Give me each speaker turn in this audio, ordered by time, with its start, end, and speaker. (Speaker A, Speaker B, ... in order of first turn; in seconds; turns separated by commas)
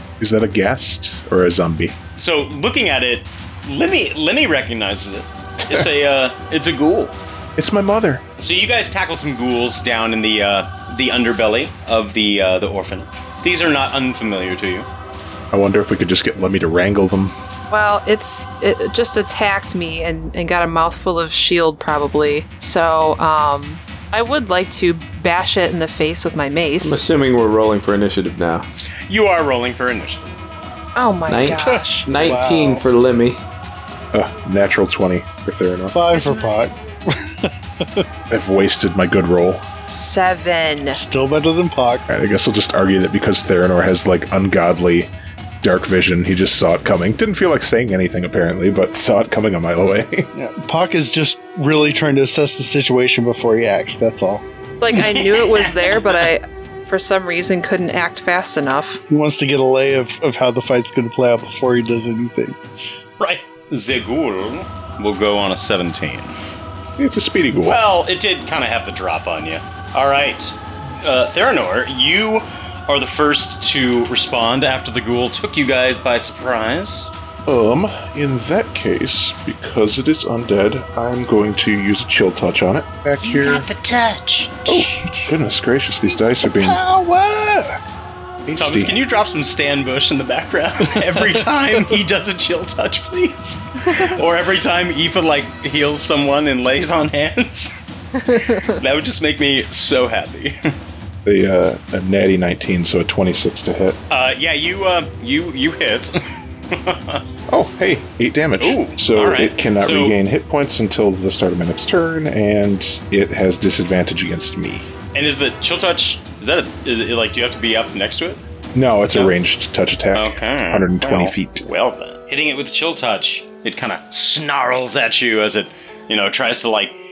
Speaker A: 0.2-2.0, Speaker B: 2.2-7.2, Speaker A: 7.6-8.2, Speaker B: 8.4-14.9, Speaker A: 15.5-17.3, Speaker C: 17.7-27.0, Speaker D: 26.8-28.7, Speaker B: 29.1-30.4, Speaker C: 31.0-32.1, Speaker D: 31.3-33.4, Speaker E: 31.7-32.9, Speaker A: 34.1-36.0, Speaker E: 35.9-38.0, Speaker C: 36.1-36.7, Speaker A: 38.3-39.6, Speaker C: 39.9-41.0, Speaker E: 40.9-42.1, Speaker A: 42.1-45.1, Speaker A: 45.6-50.3, Speaker E: 50.3-54.5, Speaker C: 54.8-59.0, Speaker B: 54.9-56.2, Speaker E: 59.1-62.6, Speaker B: 63.2-66.3, Speaker A: 67.0-67.8, Speaker B: 67.7-77.1, Speaker A: 77.5-83.7, Speaker B: 83.2-85.3, Speaker A: 84.7-86.8, Speaker E: 86.6-87.8, Speaker A: 88.5-89.0, Speaker B: 88.6-97.8, Speaker B: 98.3-100.7, Speaker A: 101.2-104.0, Speaker B: 104.1-106.2, Speaker B: 106.7-107.2, Speaker A: 107.5-114.9, Speaker B: 108.6-110.2, Speaker B: 115.1-118.4, Speaker A: 118.8-121.7, Speaker B: 120.1-127.0